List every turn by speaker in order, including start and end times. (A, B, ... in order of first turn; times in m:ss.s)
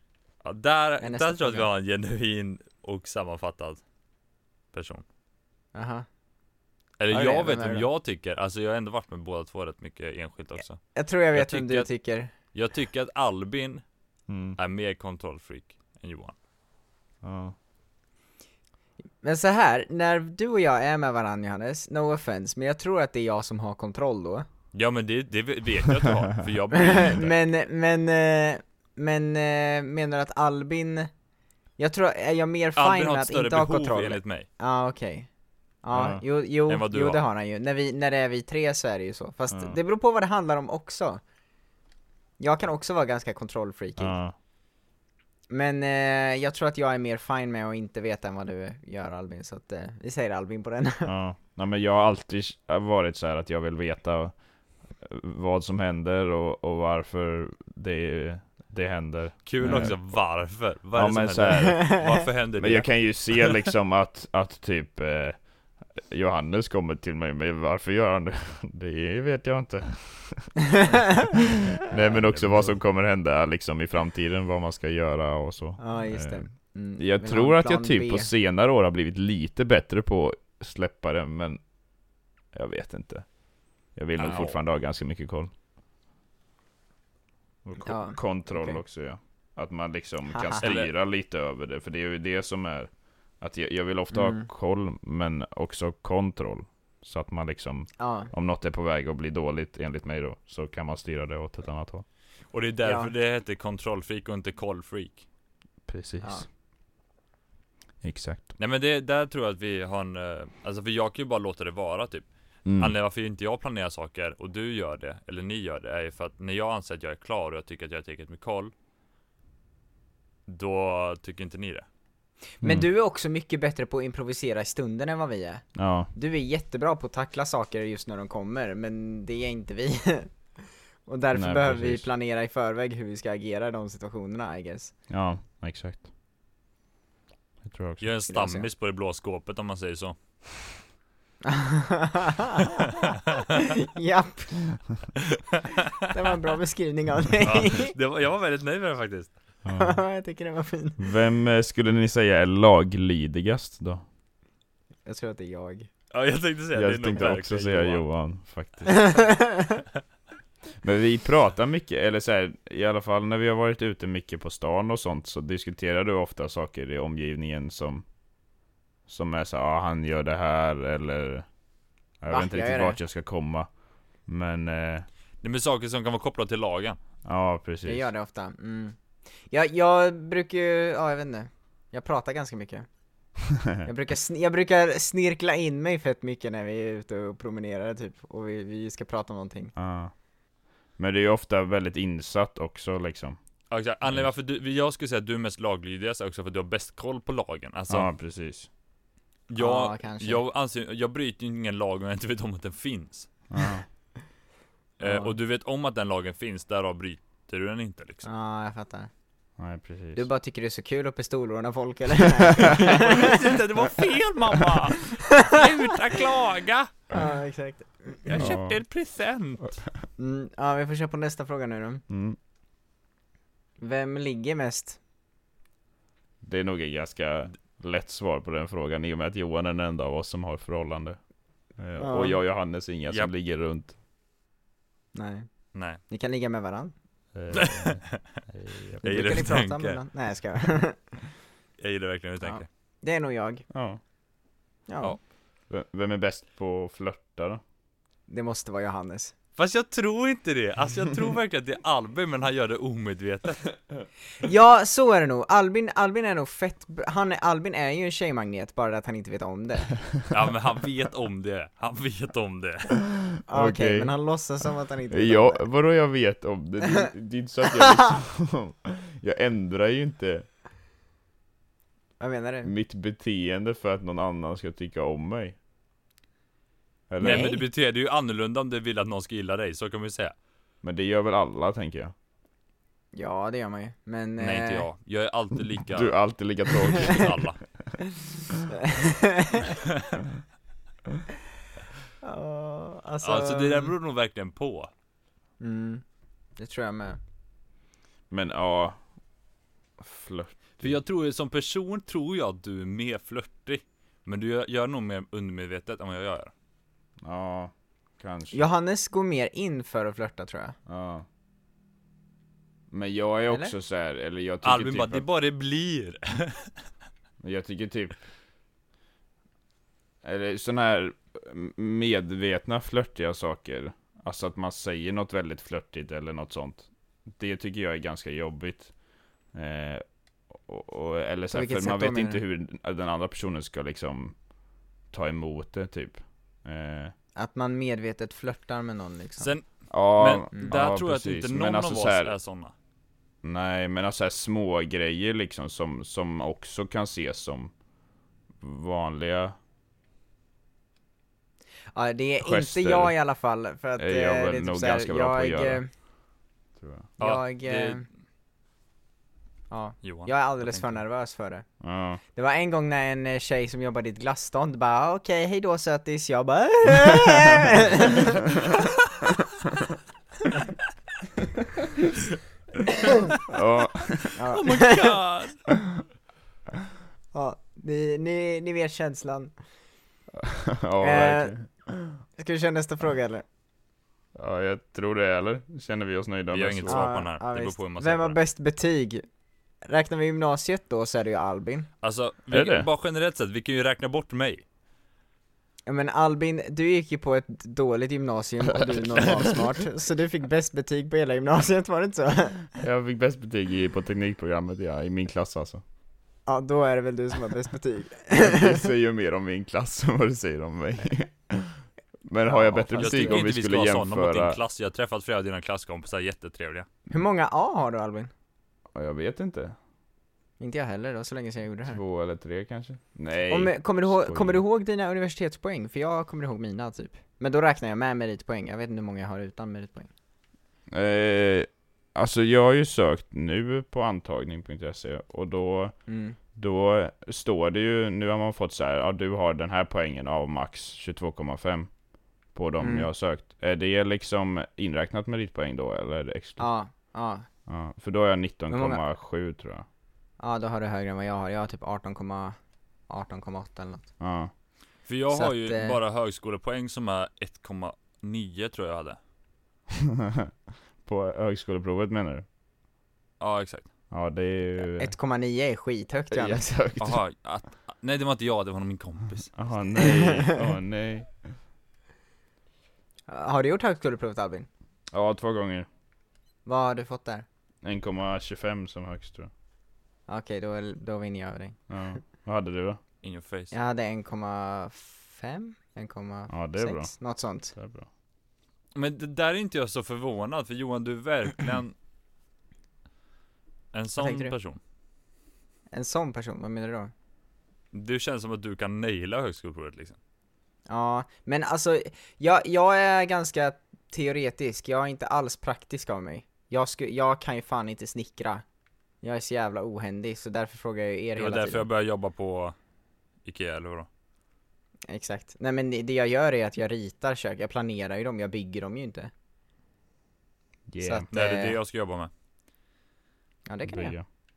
0:00.4-0:03.8 A
0:01.0-0:01.7 B
0:04.7-0:05.0 A
0:05.7-0:06.1 B
0:07.0-0:11.9 A
0:07.1-0:07.9 B
0:10.9-0:12.3 B
0:12.4-0:13.8 A
0:14.3-0:14.6 C
0:14.6-0:16.4 A
0:17.2-0:17.6 C
0:19.2-0:24.5 B
0:24.7-0:27.3 A
0:26.8-0:31.1 B
0:31.8-0:35.3 B
0:32.8-0:34.5 A
0:35.8-0:41.2 B
0:35.9-0:36.2 C
0:36.7-0:37.2 A
0:39.5-0:39.8 C
0:42.4-0:44.2 B
0:44.0-0:44.3 C
0:45.5-0:51.1 B
0:51.0-1:00.3 C
0:59.4-1:03.6 A
1:00.9-1:10.6 C
1:11.3-1:16.5 C
1:15.8-1:18.3 B
1:17.0-1:21.6 C
1:22.5-1:23.4 C
1:23.9-1:25.5 C
1:24.2-1:24.6 A
1:27.6-1:42.0 C
1:27.8-1:28.8 B
1:30.3-1:30.6 B
1:30.6-1:30.9 A
1:34.1-1:34.5 B
1:38.0-1:38.3 B
1:42.5-1:45.2 A
1:42.8-1:43.1 B
1:45.9-1:46.4 C
1:46.2-1:46.5 B
1:48.0-1:48.5 C
1:48.6-1:58.7 A
1:52.6-1:52.9 C
2:00.5-2:01.9 A
2:02.6-2:10.5 B
2:05.8-2:06.1 C
2:11.1-2:14.9 B
2:11.3-2:12.1 C
2:15.1-2:16.1 C
2:17.6-2:18.1 C
2:18.0-2:20.2 A
2:18.3-2:18.7 B
2:21.4-2:23.0 B
2:23.5-2:24.9 B
2:26.1-2:27.9 B
2:27.4-2:29.4 A
2:29.6-2:30.0 C
2:29.8-2:31.0 B
2:31.0-2:34.0 C
2:35.1-2:35.9 B
2:36.1-2:38.1 A
2:36.8-2:39.3 C
2:38.9-2:39.8 B
2:40.8-2:48.1 C
2:49.1-2:51.5 C
2:52.2-2:55.1 C
2:52.3-2:53.0 B
2:55.4-2:57.0 A
2:57.2-2:58.1 C
2:57.8-2:59.0 B
2:59.5-3:02.9 B
3:03.8-3:09.7 B
3:09.8-3:10.1 C
3:11.0-3:13.4 C
3:13.7-3:18.1 A
3:14.0-3:14.3 C
3:17.9-3:18.7 C
3:19.5-3:23.3 A
3:19.6-3:20.4 B
3:23.5-3:23.8 C
3:25.0-3:28.3 A
3:25.0-3:25.3 B
3:28.2-3:29.1 B
3:29.6-3:30.3 C
3:30.2-3:33.4 B
3:32.8-3:36.9 A
3:35.4-3:35.6 B
3:37.1-3:38.5 B
3:38.2-3:39.8 A
3:38.4-3:38.8 C
3:40.2-3:42.0 B
3:42.1-3:42.4 C
3:43.8-3:45.0 B
3:46.4-3:51.2 C
3:51.7-3:54.0 C
3:52.0-3:52.4 B
3:55.1-3:56.9 B
3:55.7-3:56.0 A
3:57.3-3:59.0 C
3:57.5-3:58.3 A
3:59.0-4:00.0 A
3:59.0-4:01.2 B
4:01.8-4:02.7 A
4:02.4-4:03.7 B
4:03.7-4:04.0 C
4:04.9-4:05.2 B
4:05.7-4:07.6 C
4:08.3-4:09.3 B
4:09.6-4:13.7 A
4:14.4-4:20.1 B
4:20.3-4:23.0 A
4:23.5-4:25.7 B
4:23.5-4:24.1 C
4:25.1-4:30.5 C
4:32.2-4:32.7 B
4:32.6-4:35.6 C
4:37.1-4:37.5 C
4:37.2-4:40.4 A
4:37.2-4:37.6 B
4:40.8-4:42.1 C
4:43.1-4:44.9 B
4:44.4-4:46.2 A
4:45.9-4:47.9 C
4:46.9-4:47.6 A
4:48.7-4:49.7 B
4:52.2-4:53.9 B
4:53.2-4:54.9 A
4:55.6-4:56.0 B
4:56.6-4:57.2 B
4:58.3-4:59.0 C
5:00.0-5:01.0 C
5:00.8-5:06.5 A
5:07.2-5:08.6 C
5:08.5-5:10.8 B
5:10.9-5:11.2 C
5:12.9-5:15.2 C
5:14.6-5:16.7 A
5:17.4-5:18.3 C
5:20.2-5:29.0 C
5:29.5-5:34.4 C
5:31.5-5:32.4 B
5:35.1-5:37.1 C
5:37.4-5:39.5 B
5:39.4-5:42.7 A
5:39.9-5:42.4 C
5:43.4-5:47.7 C
5:48.6-5:49.6 C
5:51.9-5:55.9 B
5:52.4-5:53.1 C
5:54.0-5:55.8 C
5:56.8-5:57.1 C
5:57.2-5:58.0 A
5:57.2-5:58.0 B
5:59.7-6:01.7 B
6:00.0-6:01.0 A
6:01.8-6:02.2 C
6:02.4-6:09.4 B
6:13.5-6:14.4 C
6:14.4-6:15.2 B
6:14.5-6:15.6 A
6:17.3-6:19.5 B
6:20.4-6:22.2 C
6:21.0-6:21.7 B
6:22.4-6:23.4 B
6:24.4-6:27.1 C
6:26.5-6:28.4 A
6:26.9-6:29.2 B
6:29.8-6:31.9 B
6:32.0-6:34.6 A
6:32.5-6:32.9 C
6:35.9-6:42.7 B
6:42.8-6:45.8 C
6:46.5-6:48.9 B
6:48.4-6:54.6 C
6:52.5-6:53.4 B
6:53.0-6:56.9 A
6:57.1-6:58.3 B
6:58.9-6:59.8 C
7:00.6-7:02.0 B
7:01.9-7:04.6 C
7:03.5-7:10.1 B
7:10.9-7:16.0 C
7:16.1-7:16.4 B
7:16.5-7:21.9 C
7:22.5-7:26.7 C
7:22.8-7:23.1 B
7:26.6-7:27.5 B
7:27.7-7:29.9 C
7:28.7-7:29.0 B
7:30.4-7:32.6 B
7:33.1-7:34.1 B
7:34.2-7:34.5 C
7:35.1-7:39.2 A
7:35.3-7:36.0 B
7:40.2-7:40.5 C
7:41.0-7:42.4 C
7:43.4-7:43.9 A
7:44.1-7:45.1 C
7:45.0-7:46.8 B
7:46.3-7:47.2 C
7:47.0-7:49.6 A
7:49.5-7:51.6 C
7:50.0-7:50.6 B
7:53.3-7:54.7 B
7:55.1-7:55.9 C
7:56.7-7:57.4 B
7:57.8-7:59.5 C
8:00.3-8:02.0 B
8:01.9-8:03.0 C
8:03.2-8:03.7 A
8:03.7-8:07.7 B
8:06.5-8:07.2 C
8:07.7-8:08.1 C
8:08.9-8:12.0 A
8:13.9-8:14.8 A
8:14.2-8:14.5 B
8:15.9-8:17.1 B
8:17.9-8:20.2 A
8:20.9-8:28.6 B
8:29.2-8:31.9 B
8:31.4-8:32.8 A
8:33.4-8:34.1 A
8:35.1-8:39.3 B
8:40.9-8:41.3 C
8:41.0-8:41.8 B
8:41.3-8:42.3 A
8:43.7-8:44.2 B
8:43.9-8:44.2 C